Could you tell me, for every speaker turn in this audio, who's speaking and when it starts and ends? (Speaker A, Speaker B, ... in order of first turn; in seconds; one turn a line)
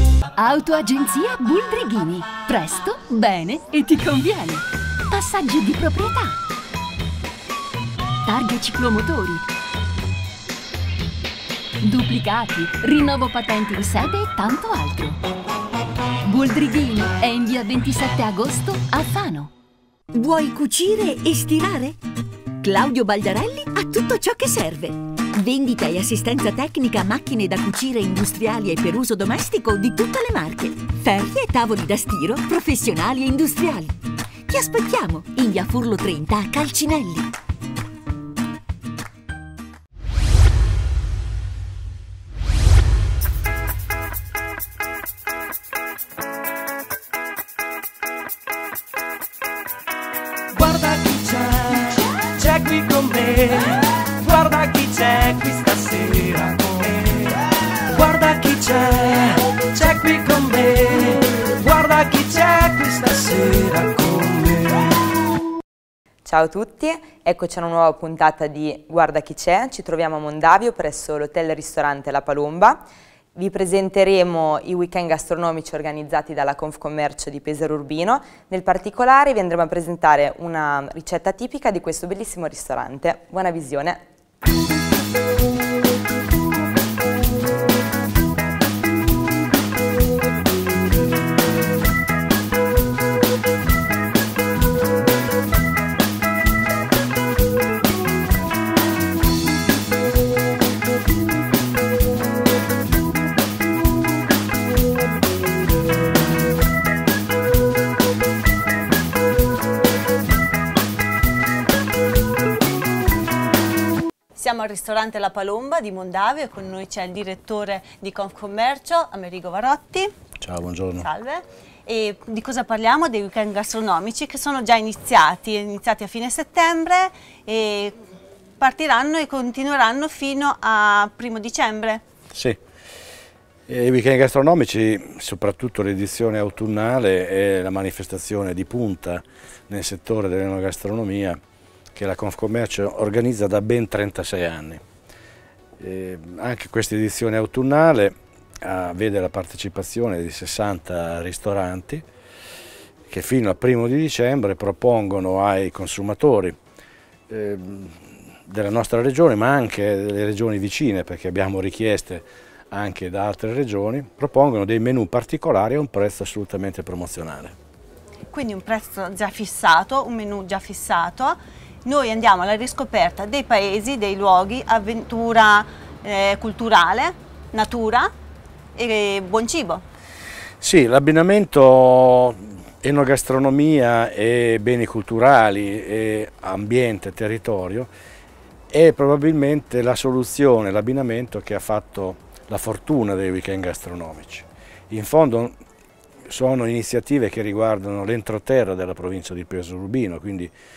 Speaker A: 0.4-6.4
Speaker A: 8.2-9.4
Speaker A: 11.8-15.2
Speaker A: 16.2-19.5
Speaker B: 20.1-22.0
Speaker B: 22.6-34.0
Speaker B: 34.5-37.3
Speaker C: 50.5-65.0
Speaker D: 66.2-84.0
Speaker E: 114.4-120.1
Speaker F: 120.4-121.1
Speaker E: 121.0-128.0
Speaker E: 128.6-132.0
Speaker F: 132.3-132.6
Speaker F: 133.7-141.4
Speaker F: 141.9-144.8
Speaker F: 145.8-152.1
Speaker F: 153.1-156.6
Speaker F: 157.3-167.6
Speaker E: 168.3-178.1
Speaker E: 178.8-179.8
Speaker F: 180.6-187.9
Speaker F: 188.7-195.6
Speaker F: 196.3-200.5